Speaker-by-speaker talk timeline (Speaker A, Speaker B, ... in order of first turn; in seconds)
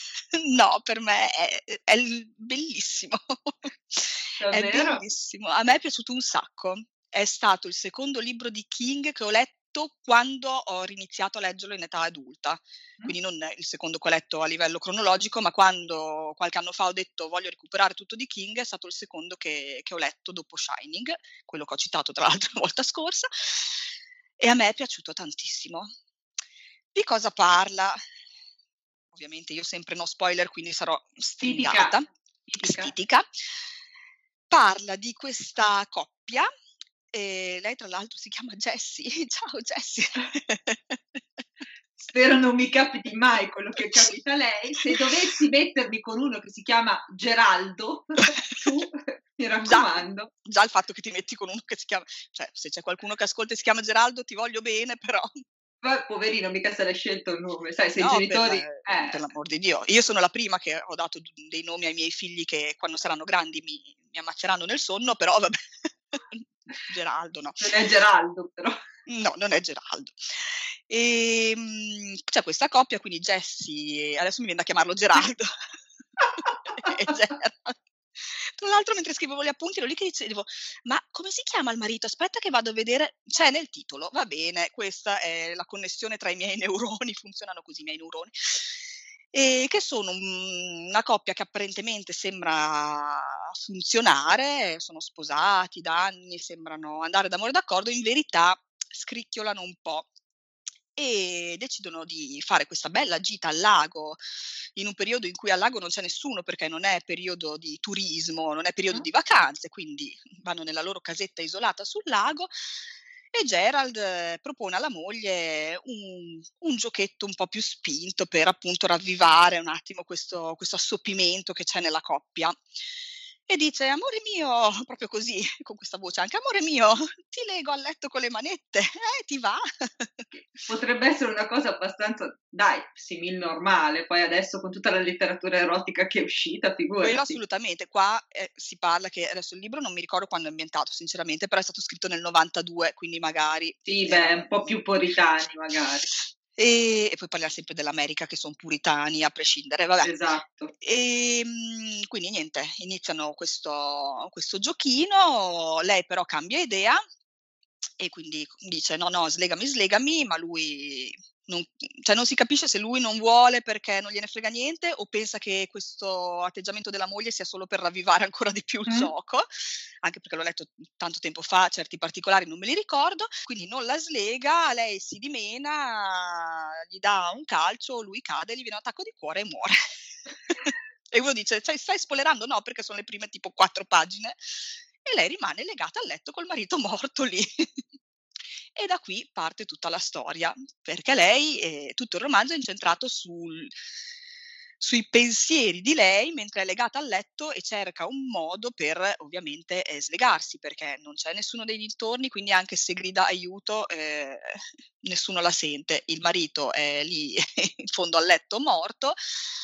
Speaker A: 0.3-25.9, 26.9-28.0, 29.1-32.1, 32.6-33.2, 34.5-36.5, 37.1-41.2, 49.7-55.4, 58.0-67.8, 69.1-75.5, 76.7-100.1, 101.0-104.2, 104.8-112.5, 113.3-122.6, 123.5-130.3, 137.0-144.8, 146.6-150.1, 150.8-157.0, 158.0-169.5, 170.0-179.8, 180.5-187.8, 188.8-193.8, 194.8-209.2
Speaker B: 4.4-5.0, 31.4-32.9, 42.0-50.3, 55.8-59.2, 67.6-68.8, 76.4-77.1, 130.3-137.4, 143.9-146.1, 150.0-150.7